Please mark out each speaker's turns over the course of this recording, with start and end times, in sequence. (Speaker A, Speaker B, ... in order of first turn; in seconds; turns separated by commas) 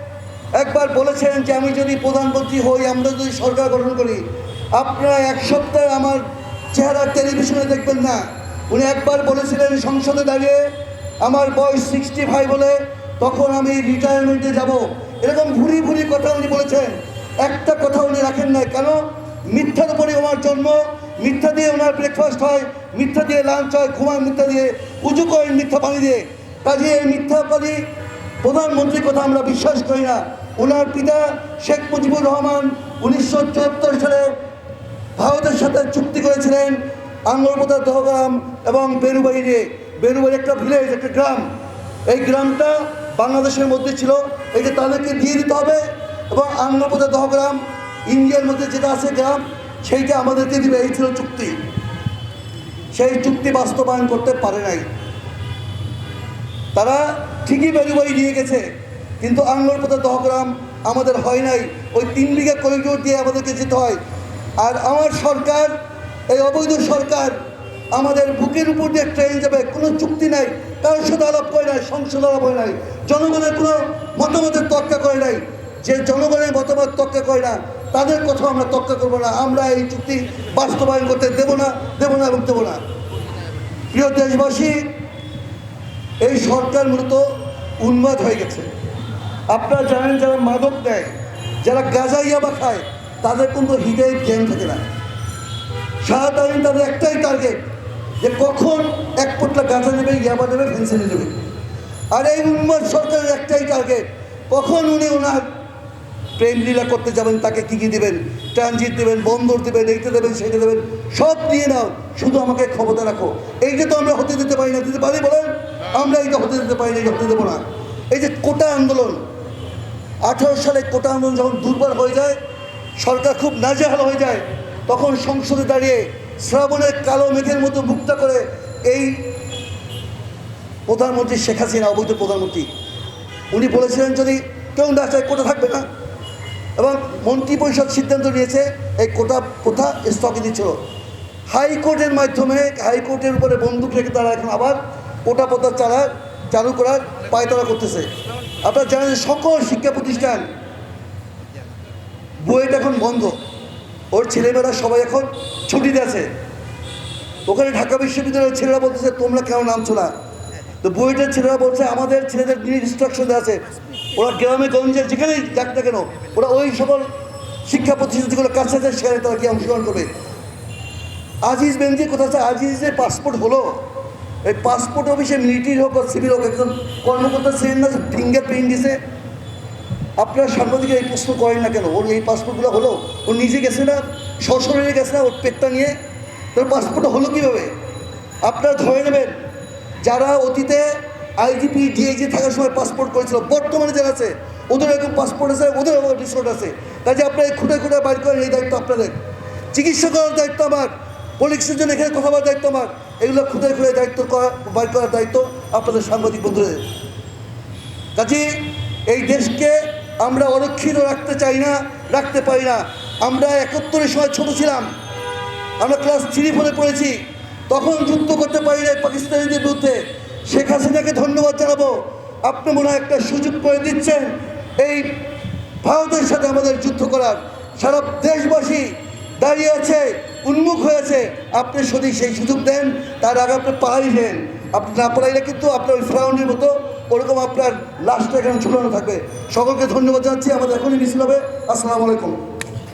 Speaker A: 0.5-10.7, Speaker A: 11.2-27.8, Speaker A: 28.4-34.3, Speaker A: 35.1-41.5, Speaker A: 42.1-51.6, Speaker A: 52.9-54.9, Speaker A: 56.7-58.7, Speaker A: 59.2-64.0, Speaker A: 64.6-65.7, Speaker A: 66.3-67.4, Speaker A: 67.9-82.8, Speaker A: 83.9-84.9, Speaker A: 86.2-87.2, Speaker A: 87.8-88.7, Speaker A: 89.5-94.9, Speaker A: 96.0-97.6, Speaker A: 98.2-101.4, Speaker A: 102.1-105.5, Speaker A: 106.4-119.2, Speaker A: 120.2-122.4, Speaker A: 123.0-129.4, Speaker A: 130.9-132.7, Speaker A: 133.5-135.8, Speaker A: 136.8-140.8, Speaker A: 141.5-148.1, Speaker A: 148.6-150.4, Speaker A: 152.4-153.4, Speaker A: 154.1-156.3, Speaker A: 157.5-160.1, Speaker A: 160.8-163.6, Speaker A: 164.1-167.1, Speaker A: 167.6-170.1, Speaker A: 171.4-173.8, Speaker A: 174.4-179.0, Speaker A: 180.2-185.9, Speaker A: 186.5-187.7, Speaker A: 188.4-189.3, Speaker A: 190.0-199.2, Speaker A: 199.7-206.8, Speaker A: 208.2-214.9, Speaker A: 215.8-225.2, Speaker A: 225.8-242.4